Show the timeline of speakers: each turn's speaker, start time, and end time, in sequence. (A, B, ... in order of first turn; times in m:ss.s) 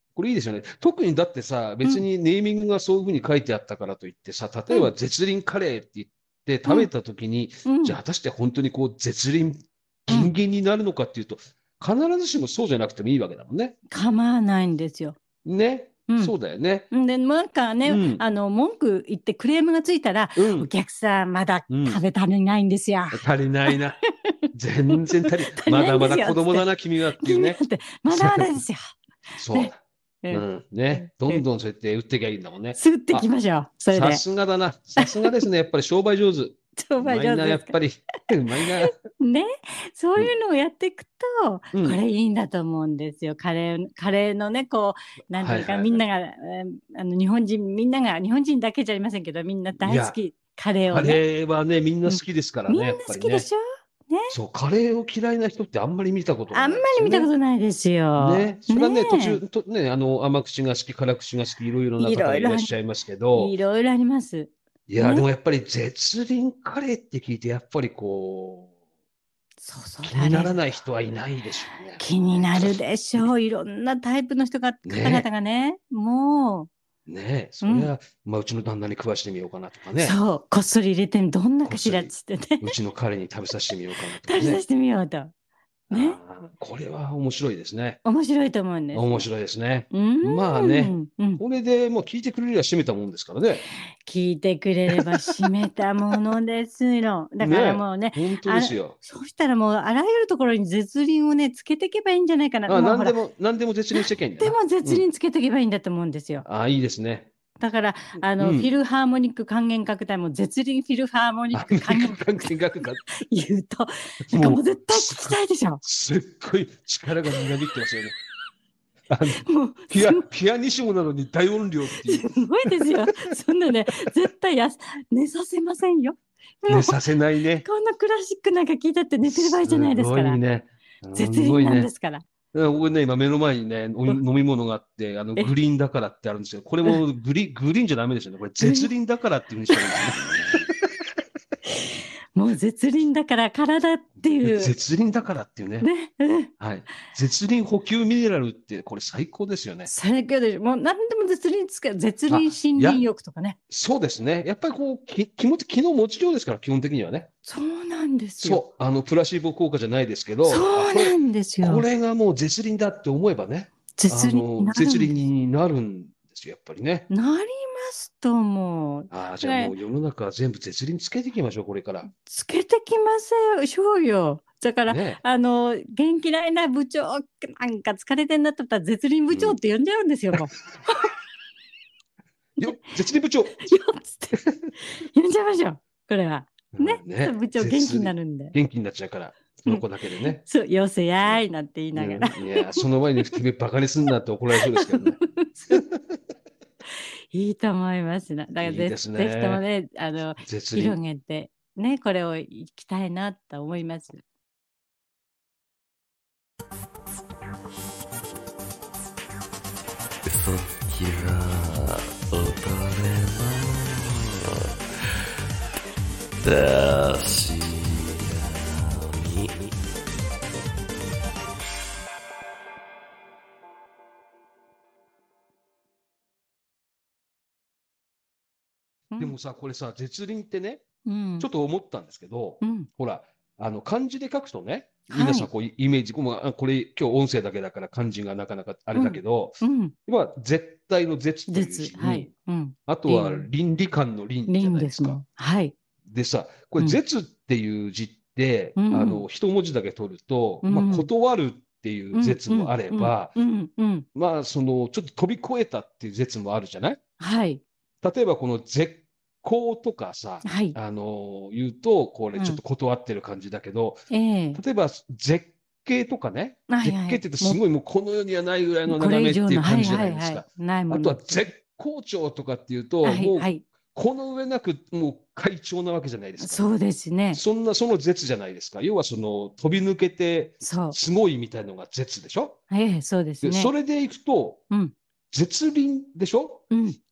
0:00.2-0:13.8 A
0:07.6-0:08.0 B
0:13.9-0:15.2 B
0:15.4-0:16.9 A
0:16.9-0:23.8 B
0:17.8-0:18.2 A
0:20.4-0:20.7 A
0:21.7-0:22.0 A
0:23.1-0:24.0 A
0:24.5-0:28.5 A
0:24.9-0:26.7 B
0:27.2-0:29.7 B
0:29.4-0:29.8 A
0:30.2-0:31.4 B
0:30.3-0:33.3 A
0:32.8-0:34.2 B
0:33.9-0:38.9 A
0:35.0-0:35.4 B
0:36.8-0:37.8 B
0:38.3-0:51.2 B
0:41.7-0:42.0 A
0:45.3-0:46.0 A
0:49.8-0:50.2 A
0:50.9-0:53.4 A
0:52.0-0:54.3 B
0:54.3-0:57.3 A
0:56.5-0:59.4 B
0:58.2-1:03.5 A
1:02.0-1:02.7 B
1:03.3-1:05.2 B
1:04.9-1:08.7 A
1:09.6-1:10.6 B
1:10.0-1:13.3 A
1:12.0-1:16.7 B
1:14.8-1:15.2 A
1:17.1-1:20.2 A
1:17.6-1:17.9 B
1:20.0-1:22.7 B
1:21.6-1:24.6 A
1:24.3-1:25.3 B
1:25.9-1:28.0 A
1:25.9-1:26.2 B
1:28.0-1:29.3 B
1:28.9-1:33.6 A
1:29.9-1:31.4 B
1:34.0-1:43.2 B
1:37.4-1:39.0 A
1:42.7-1:45.0 A
1:43.9-1:46.4 B
1:46.4-1:47.3 A
1:47.6-1:52.2 B
1:48.4-1:48.7 A
1:51.5-1:53.0 A
1:53.1-1:55.8 B
1:54.3-1:58.2 A
1:59.1-2:02.9 A
1:59.4-2:00.2 B
2:02.0-2:07.0 B
2:06.7-2:07.6 A
2:07.6-2:10.4 B
2:09.2-2:11.9 A
2:11.1-2:12.2 B
2:12.5-2:20.7 A
2:18.6-2:18.9 B
2:19.7-2:20.0 B
2:21.7-2:24.7 B
2:24.4-2:25.9 A
2:25.8-2:26.5 B
2:26.6-2:29.9 A
2:29.9-2:33.6 B
2:32.3-2:33.0 A
2:33.7-2:37.3 A
2:37.5-2:38.6 B
2:38.4-2:47.1 A
2:40.4-2:41.8 B
2:44.0-2:45.1 B
2:47.1-2:49.7 B
2:49.1-2:52.1 A
2:52.1-3:01.1 B
2:54.8-2:55.2 A
2:59.3-2:59.6 A
3:02.6-3:03.7 A
3:03.6-3:08.5 B
3:04.3-3:04.7 A
3:06.7-3:10.4 A
3:09.7-3:12.8 B
3:11.9-3:15.2 A
3:14.6-3:15.8 B
3:17.3-3:24.2 B
3:18.6-3:19.6 A
3:20.4-3:21.0 A
3:30.2-3:35.3 C
3:36.4-3:39.8 C
3:49.2-3:50.8 A
3:51.0-3:51.5 B
3:51.4-4:02.3 A
3:52.6-3:52.9 B
3:55.1-3:55.5 B
3:58.9-3:59.9 B
4:01.5-4:03.5 B
4:02.9-4:05.2 A
4:04.5-4:05.7 B
4:06.0-4:13.3 A
4:08.8-4:09.2 B
4:10.6-4:11.1 B
4:12.1-4:14.0 B
4:14.1-4:17.0 A
4:17.2-4:17.6 B
4:18.0-4:36.6 A
4:20.4-4:20.8 B
4:24.1-4:24.6 B
4:26.7-4:27.6 B
4:28.9-4:31.1 B
4:33.0-4:33.6 B
4:36.4-4:37.4 B
4:37.3-4:42.6 A
4:40.6-4:41.0 B
4:42.7-4:43.7 B
4:43.4-4:44.6 A
4:45.3-4:46.6 A
4:46.7-4:47.0 B